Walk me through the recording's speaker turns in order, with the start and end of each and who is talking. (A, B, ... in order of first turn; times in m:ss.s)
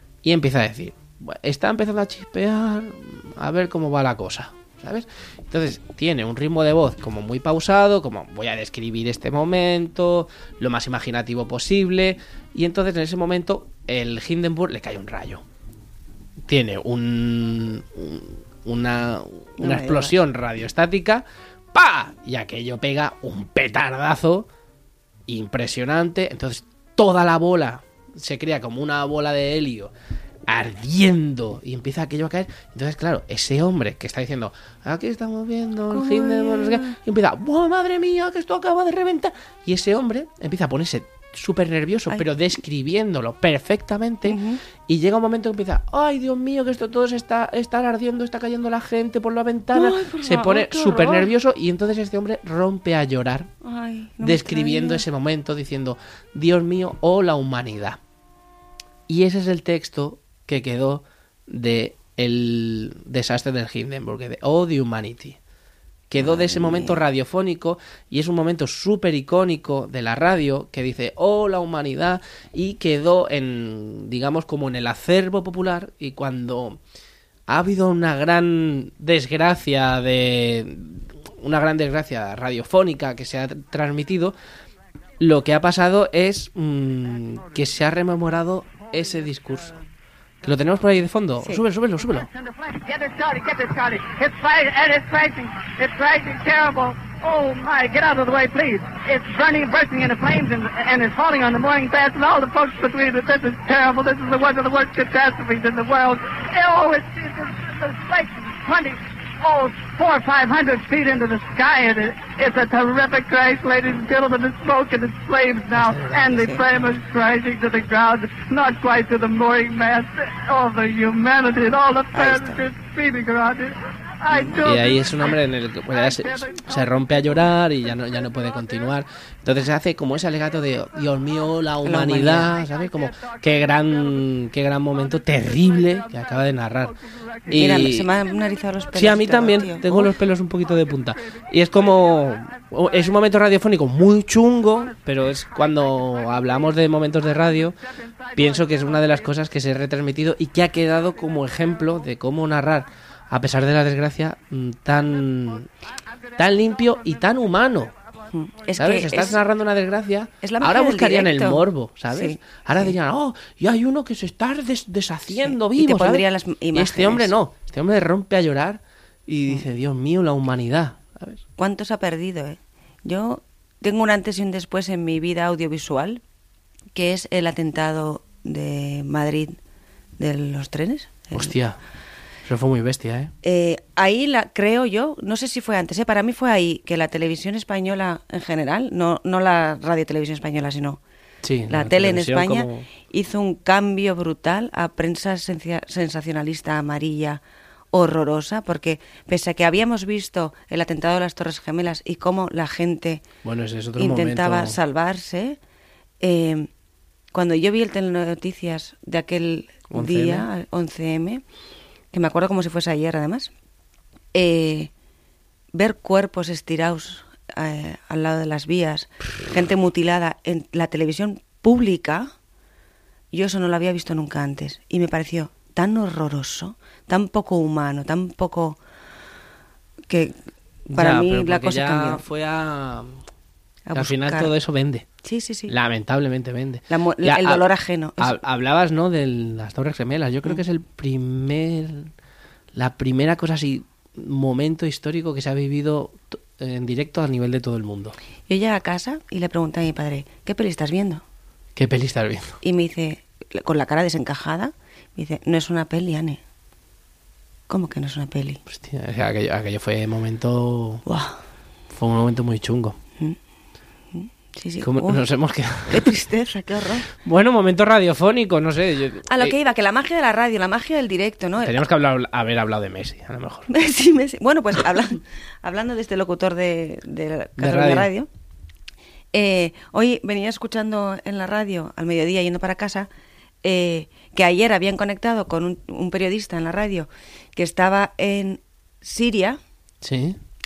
0:00.2-0:15.4 A
0:16.5-0:24.5 A
0:19.6-0:20.2 B
0:25.3-0:29.9 A
0:30.5-0:53.5 A
0:35.9-0:37.0 B
0:44.3-0:44.6 B
0:49.7-0:51.3 B
0:53.6-0:55.0 B
0:54.2-0:58.0 A
0:59.1-1:05.4 A
1:06.1-1:16.8 A
1:06.2-1:07.0 B
1:17.5-1:24.3 A
1:25.2-1:29.8 A
1:30.4-1:32.3 A
1:32.4-2:05.3 C
1:55.7-1:56.9 A
2:02.1-2:02.7 B
2:04.3-2:04.7 B
2:04.6-2:18.1 A
2:05.9-2:06.9 C
2:11.8-2:12.5 B
2:17.5-2:20.1 B
2:18.9-2:27.8 A
2:21.9-2:22.8 C
2:28.1-2:28.9 C
2:28.4-2:35.7 A
2:36.4-2:37.9 A
2:38.3-2:39.4 B
2:38.8-2:51.4 A
2:40.4-2:42.9 B
2:45.3-2:47.3 B
2:51.6-2:56.2 B
2:56.9-2:59.6 B
3:00.2-3:01.6 B
3:01.3-3:01.8 A
3:02.4-3:03.3 A
3:03.4-3:11.0 B
3:11.4-3:12.9 A
3:11.7-3:23.2 B
3:23.4-3:24.8 A
3:24.0-3:25.6 B
3:26.2-3:26.7 B
3:27.3-3:31.4 B
3:29.9-3:30.5 A
3:32.1-3:33.5 B
3:34.3-3:34.9 B
3:35.7-3:42.3 B
3:43.3-3:48.8 B
3:50.1-3:50.4 B
3:50.9-3:52.2 B
3:50.9-3:53.2 A
3:53.9-3:54.5 B
3:53.9-3:55.0 A
3:55.2-3:55.7 B
3:55.7-3:57.7 A
3:56.9-3:58.4 B
3:58.2-4:02.1 A
4:02.7-4:08.2 A
4:08.5-4:11.2 B
4:11.8-4:12.6 A
4:12.6-4:16.4 B
4:17.7-4:18.6 B
4:18.7-4:21.0 A
4:21.1-4:21.4 B
4:21.9-4:23.0 A
4:24.1-4:25.2 B
4:24.8-4:26.1 A
4:25.9-4:27.1 B
4:27.2-4:29.6 A
4:29.3-4:31.8 B
4:31.6-4:33.7 A
4:33.7-4:38.3 B
4:37.6-4:38.1 A
4:39.3-4:43.1 B
4:43.6-4:49.6 B
4:50.0-4:50.4 A